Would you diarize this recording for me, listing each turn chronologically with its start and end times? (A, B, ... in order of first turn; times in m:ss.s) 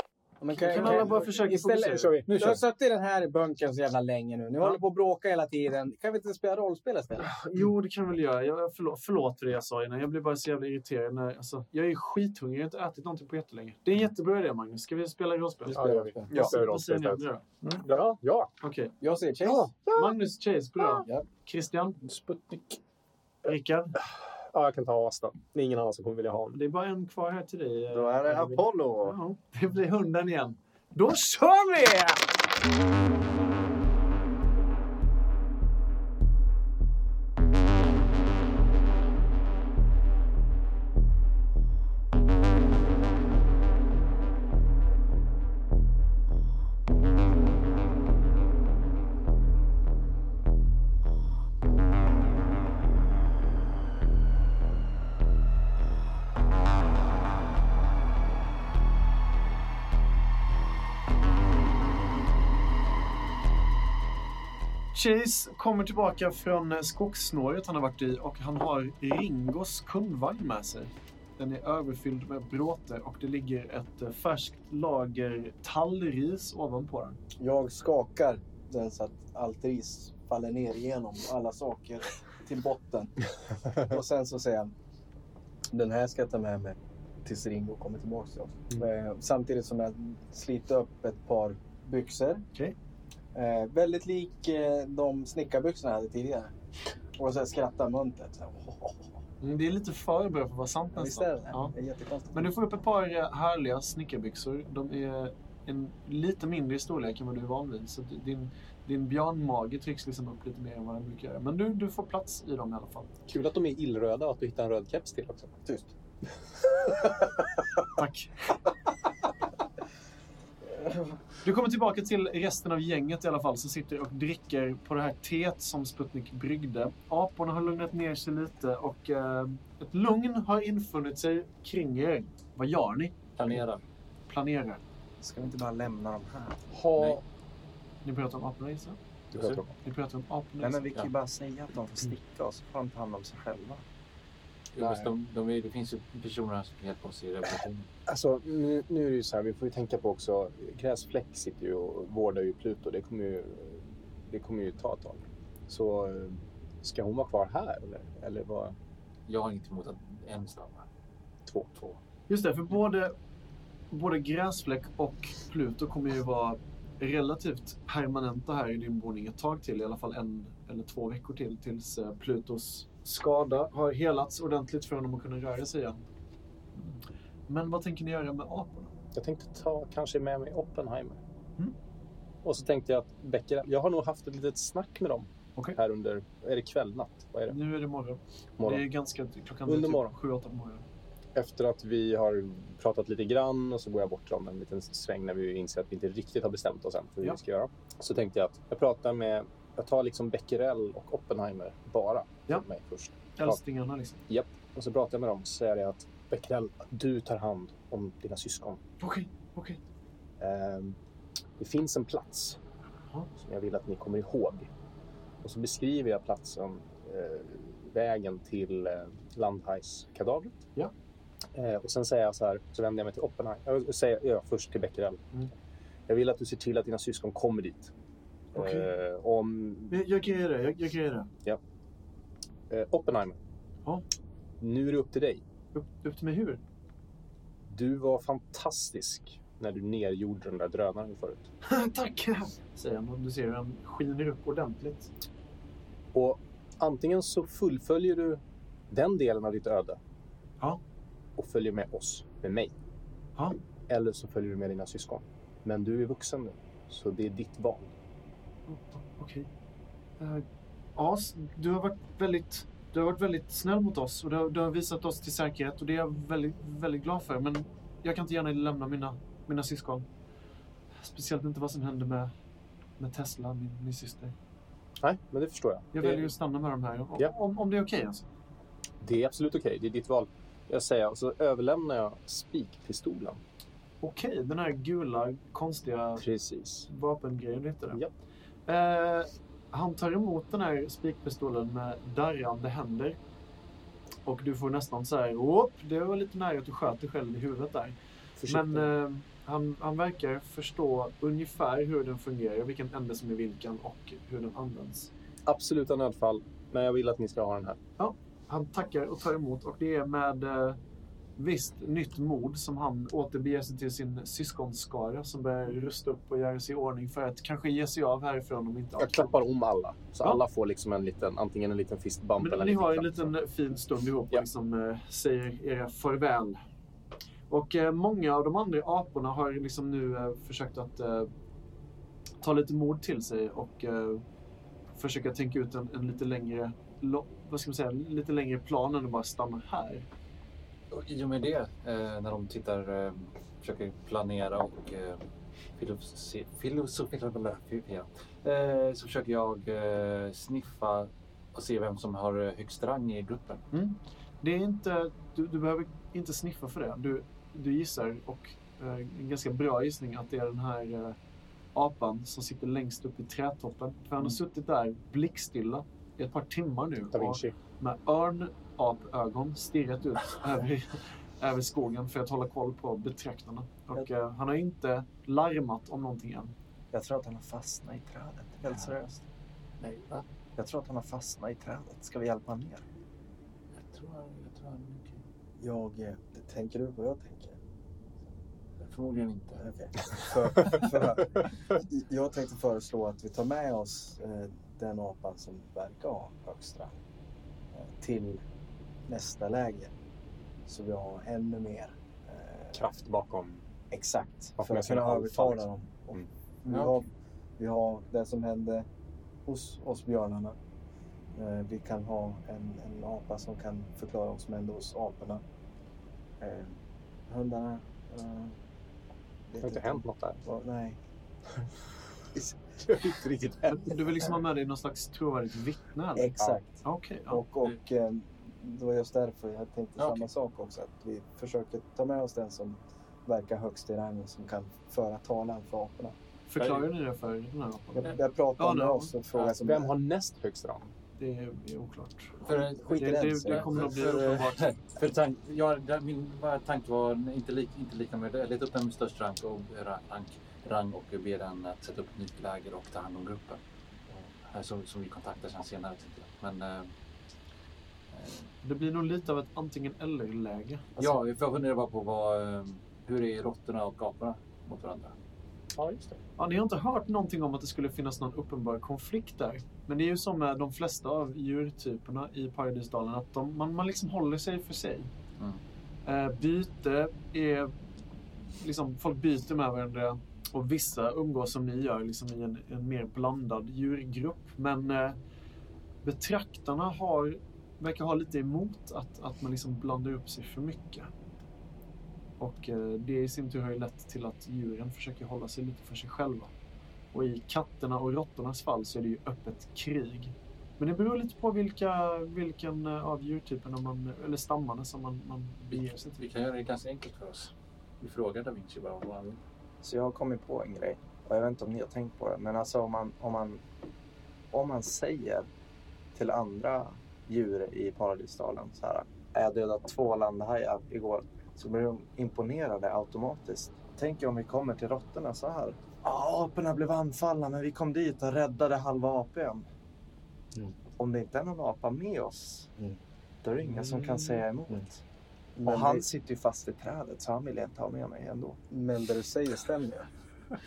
0:00.4-0:07.3 A
0:00.6-0:02.2 B
0:00.8-0:01.1 C
0:01.8-0:02.6 C
0:07.2-0:17.8 B
0:15.7-0:16.5 A
0:15.7-0:17.2 C
0:17.8-0:18.5 C
0:18.6-0:18.9 B
0:19.0-0:19.7 A
0:19.4-0:20.0 C
0:19.8-0:22.0 B
0:22.0-0:22.8 C
0:23.4-0:24.0 B
0:24.4-0:26.6 C
0:26.5-0:32.2 B
0:27.9-0:29.2 D
1:04.9-1:17.2 B
1:17.4-1:24.7 A
1:25.7-1:32.4 A
1:33.3-1:36.5 A
1:37.2-1:39.1 A
1:39.4-1:41.7 B
1:40.9-1:42.5 A
1:42.3-1:53.1 B
1:53.3-1:55.6 C
1:56.7-1:57.3 C
1:58.0-1:58.3 B
2:01.4-2:13.2 B
2:13.4-2:13.8 E
2:14.3-2:14.8 B
2:15.2-2:16.6 D
2:16.7-2:17.2 C
2:18.0-2:19.0 B
2:19.3-2:19.7 C
2:19.3-2:19.6 E
2:19.8-2:20.8 B
2:20.6-2:23.8 D
2:24.7-2:27.9 E
2:24.8-2:25.0 C
2:28.1-2:38.7 C
2:39.3-2:40.8 E
2:41.5-2:41.7 C
2:42.3-2:43.1 B
2:43.9-2:56.0 B
2:56.8-2:58.9 B
2:59.1-3:01.2 C
3:02.4-3:07.6 C
3:07.5-3:10.8 B
3:08.6-3:08.8 C
3:09.6-3:10.1 C
3:11.3-3:23.6 C
3:23.4-3:24.2 B
3:24.3-3:28.8 C
3:29.0-3:29.8 B
3:30.4-3:31.0 C
3:31.6-3:32.6 C
3:33.4-3:34.7 C
3:35.4-3:40.6 C
3:41.5-3:45.2 C
3:46.1-3:47.9 C
3:48.5-3:48.9 B
3:48.5-3:50.0 C
3:49.9-3:51.3 B
3:52.7-3:53.4 C
3:54.6-3:55.4 C
3:55.7-3:56.6 B
3:57.7-4:01.5 C
4:01.6-4:05.1 B
4:06.1-4:10.0 C
4:11.4-4:12.7 C
4:13.9-4:17.9 C
4:18.7-4:19.5 B
4:20.2-4:30.1 B
4:31.0-4:32.3 B
4:33.0-4:34.3 B
4:35.0-4:36.3 C
4:35.9-4:38.2 B
4:39.0-4:43.4 C
4:44.0-4:46.2 B
4:46.2-4:46.9 C
4:46.9-4:48.0 B
4:48.6-4:53.2 B
4:54.2-5:05.1 B
4:58.4-4:58.9 C
5:05.4-5:07.8 C
5:08.0-5:10.8 B
5:11.4-5:19.4 B
5:19.0-5:23.3 C
5:22.4-5:26.6 B
5:27.5-5:31.3 B
5:32.4-5:34.2 B
5:35.0-5:40.1 B
5:40.9-5:45.2 E
5:45.8-5:53.6 E
5:53.7-6:01.2 B
6:01.7-6:16.5 B
6:07.1-6:07.5 C
6:16.9-6:19.2 D
6:19.8-6:20.2 E
6:20.6-6:22.8 D
6:23.7-6:25.2 E
6:25.6-6:27.6 A
6:28.8-6:29.6 E
6:29.6-6:37.0 A
6:37.7-6:38.4 A
6:39.1-6:39.9 A
6:40.6-6:42.8 A
6:42.7-6:43.6 C
6:43.9-6:48.9 A
6:44.6-6:46.3 C
6:46.7-6:47.0 E
6:49.4-6:50.6 A
6:51.3-6:55.4 A
6:56.4-6:58.6 A
6:59.5-7:01.0 A
6:59.6-7:00.4 C
7:02.8-7:04.2 C
7:03.7-7:07.4 B
7:06.1-7:06.7 A
7:07.3-7:16.1 A
7:10.0-7:10.3 E
7:16.5-7:19.1 B
7:16.6-7:16.8 E
7:18.0-7:19.9 A
7:19.4-7:20.9 C
7:21.2-7:22.4 B
7:22.4-7:33.6 E
7:22.5-7:23.9 A
7:22.9-7:24.8 B
7:34.1-7:36.9 E
7:38.1-7:38.5 E
7:38.6-7:41.1 B
7:41.0-7:45.1 E
7:45.8-7:46.2 C
7:46.4-7:55.1 B
7:56.0-7:57.7 B
7:58.5-8:05.2 B
8:06.0-8:11.1 B
8:12.4-8:16.5 B
8:17.1-8:26.2 B
8:25.7-8:29.4 E
8:29.8-8:33.6 D
8:34.5-8:35.5 D
8:36.1-8:49.6 D
8:51.0-8:52.7 D
8:53.4-8:55.0 D
8:55.6-8:56.1 A
8:55.6-8:58.6 D
8:58.7-9:00.1 A